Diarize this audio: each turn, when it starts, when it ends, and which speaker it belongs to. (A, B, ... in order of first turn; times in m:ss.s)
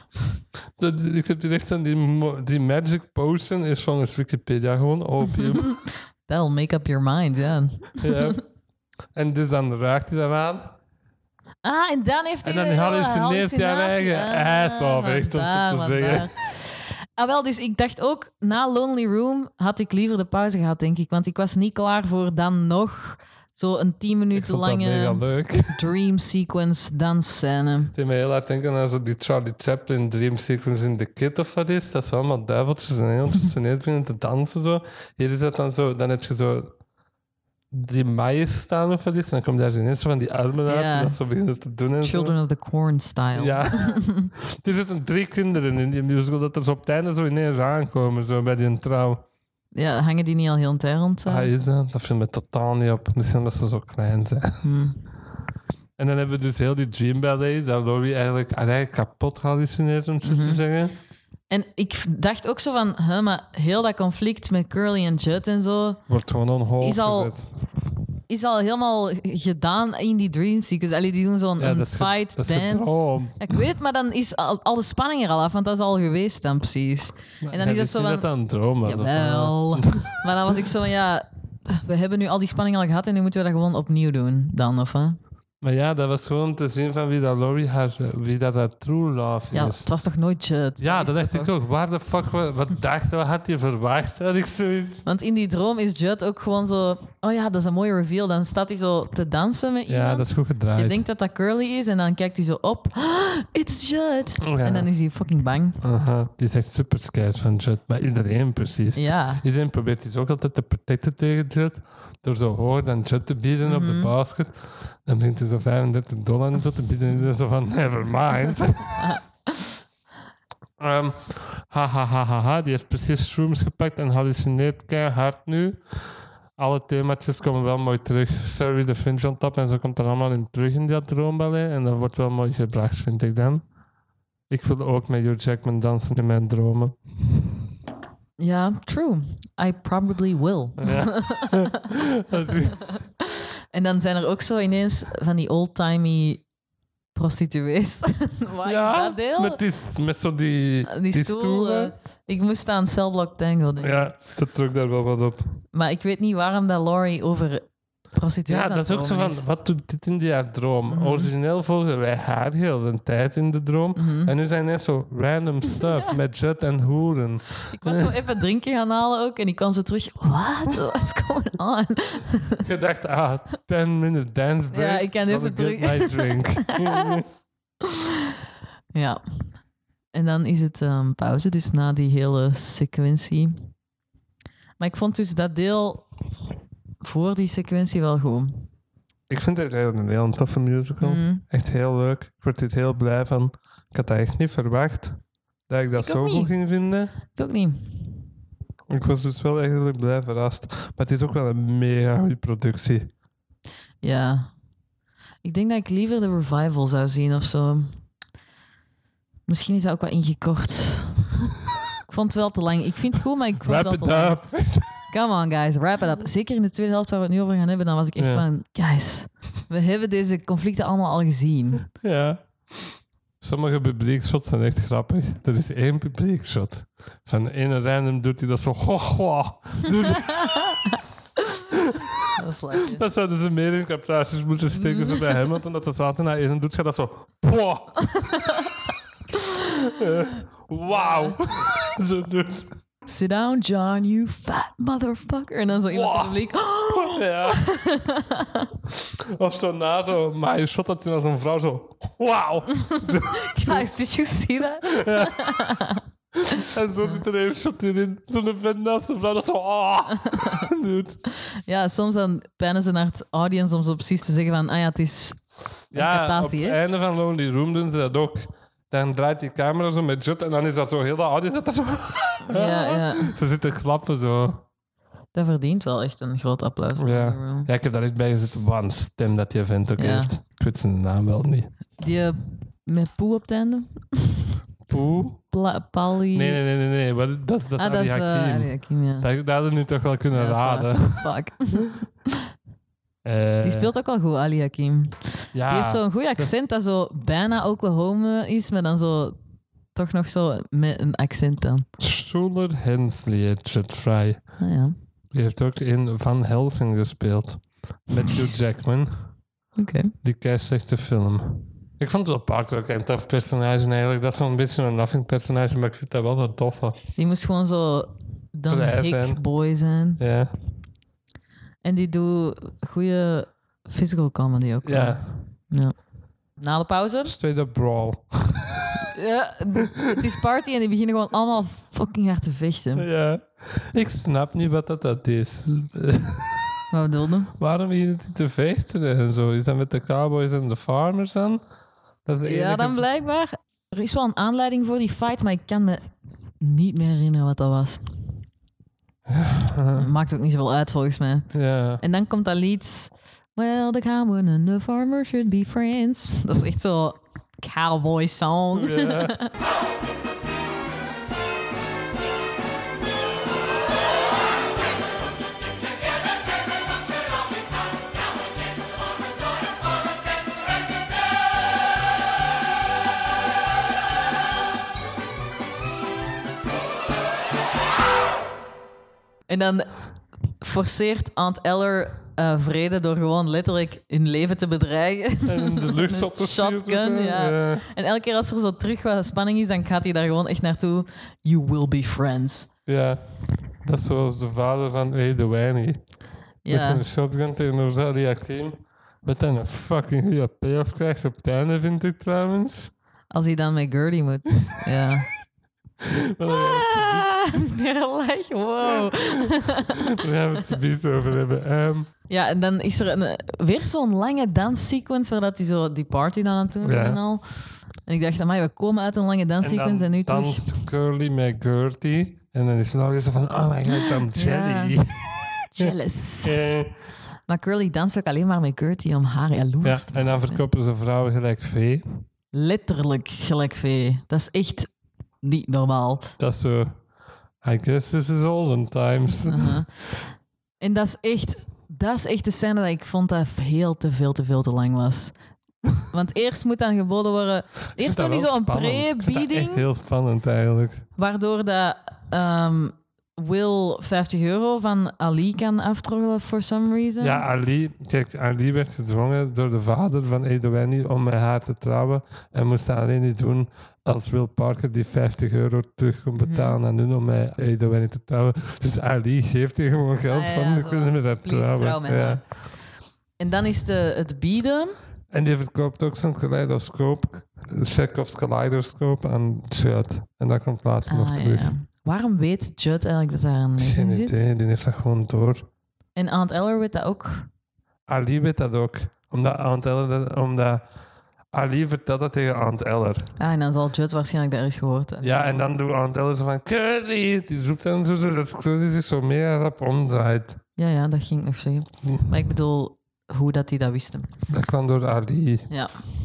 0:00.8-0:05.8 A
0:05.9-0:08.4 B
0:08.0-0:08.4 A
0:09.1-0:10.8 A
0:11.6-0:27.9 B
0:12.4-0:16.3 A
0:24.3-0:25.9 A
0:27.9-0:36.8 A
0:37.7-0:42.4 A
0:40.7-0:41.2 B
0:42.0-0:44.3 B
0:43.4-0:49.3 A
0:49.8-0:51.5 B
0:51.3-0:54.7 A
0:54.6-0:55.0 B
0:56.0-1:01.0 A
1:00.2-1:00.6 B
1:01.5-1:06.1 B
1:06.1-1:07.5 A
1:06.8-1:07.4 B
1:08.3-1:25.2 B
1:11.6-1:13.6 A
1:17.4-1:20.2 A
1:25.6-1:29.9 A
1:29.5-1:31.5 B
1:30.8-1:35.0 A
1:35.1-1:45.8 B
1:39.9-1:41.0 A
1:44.4-1:44.9 A
1:45.8-1:59.1 A
1:49.0-1:49.4 B
1:53.6-1:54.1 B
1:59.0-1:59.7 B
2:00.8-2:13.6 A
2:14.5-2:17.6 A
2:18.4-2:21.8 B
2:20.8-2:22.8 A
2:22.4-2:26.5 B
2:27.2-2:29.6 B
2:28.6-2:31.9 A
2:30.9-2:34.1 B
2:33.8-2:35.6 A
2:35.7-2:39.4 B
2:38.5-2:48.2 A
2:40.9-2:41.3 B
2:44.0-2:44.3 B
2:47.7-2:52.6 B
2:52.6-2:57.3 A
2:54.7-2:57.2 B
2:58.9-2:59.5 B
3:00.1-3:03.7 B
3:04.8-3:06.1 B
3:07.0-3:08.7 B
3:09.3-3:17.2 A
3:11.0-3:11.4 B
3:16.0-3:18.2 B
3:18.9-3:23.1 A
3:24.0-3:24.5 B
3:25.4-3:28.0 B
3:29.5-3:31.4 B
3:32.1-3:41.9 B
3:33.6-3:35.1 A
3:38.2-3:38.4 A
3:42.0-3:50.7 A
3:50.4-3:50.7 B
3:51.7-3:58.4 A
3:52.3-3:53.0 B
3:54.7-3:55.4 B
4:00.0-4:02.8 A
4:00.9-4:01.4 B
4:03.1-4:08.7 B
4:05.9-4:07.7 A
4:09.2-4:13.9 A
4:12.9-4:16.0 B
4:14.8-4:15.6 A
4:16.4-4:21.2 A
4:21.4-4:26.8 B
4:25.9-4:34.6 A
4:32.5-4:33.3 B
4:35.3-4:37.7 B
4:37.0-4:41.7 A
4:40.0-4:40.4 B
4:42.0-4:44.5 B
4:44.9-4:45.4 A
4:45.5-4:46.6 B
4:46.3-4:51.3 A
4:47.8-4:49.3 B
4:50.3-4:52.3 B
4:53.2-4:53.9 A
4:53.6-4:59.4 B
4:55.5-4:56.5 A
4:59.9-5:01.9 B
5:02.0-5:04.6 A
5:04.6-5:04.9 B
5:05.3-5:09.3 A
5:09.8-5:10.1 B
5:10.2-5:17.0 A
5:17.2-5:20.2 B
5:18.7-5:19.4 A
5:20.2-5:20.5 A
5:21.8-5:26.0 B
5:24.8-5:25.4 A
5:26.6-5:27.4 B
5:27.2-5:28.9 A
5:29.1-5:33.1 B
5:33.0-5:36.8 A
5:36.9-5:37.5 B
5:37.6-5:41.7 A
5:42.2-5:43.0 A
5:42.4-5:46.0 B
5:46.6-5:48.3 B
5:49.3-5:50.1 A
5:50.0-5:59.5 B
5:51.5-5:52.0 A
5:58.7-5:59.4 A
6:19.5-6:32.7 B
6:25.5-6:27.9 A
6:32.9-6:42.9 A
6:36.6-6:37.0 B
6:43.3-6:45.3 B
6:46.0-6:47.6 A
6:46.5-6:50.1 B
6:48.9-6:52.1 A
6:52.3-7:00.7 B
6:56.8-6:57.2 A
6:59.6-7:07.0 A
7:04.0-7:05.0 B
7:05.7-7:06.6 B
7:07.5-7:10.6 B
7:09.8-7:12.2 A
7:12.5-7:14.9 B
7:15.4-7:16.3 B
7:16.4-7:17.1 A
7:17.6-7:19.8 A
7:19.5-7:20.2 B
7:20.8-7:25.4 B
7:26.0-7:29.9 B
7:28.0-7:31.1 A
7:31.2-7:37.4 B
7:37.2-7:52.5 A
7:46.4-7:46.8 B
7:50.3-7:52.9 B
7:53.4-7:55.0 B
7:55.3-8:01.7 A
8:01.1-8:04.4 B
8:03.8-8:05.7 A
8:06.2-8:07.5 B
8:08.1-8:10.8 A
8:11.5-8:13.3 A
8:13.4-8:15.6 B
8:15.2-8:20.6 A
8:20.8-8:24.4 B
8:24.5-8:25.7 A
8:25.7-8:26.0 B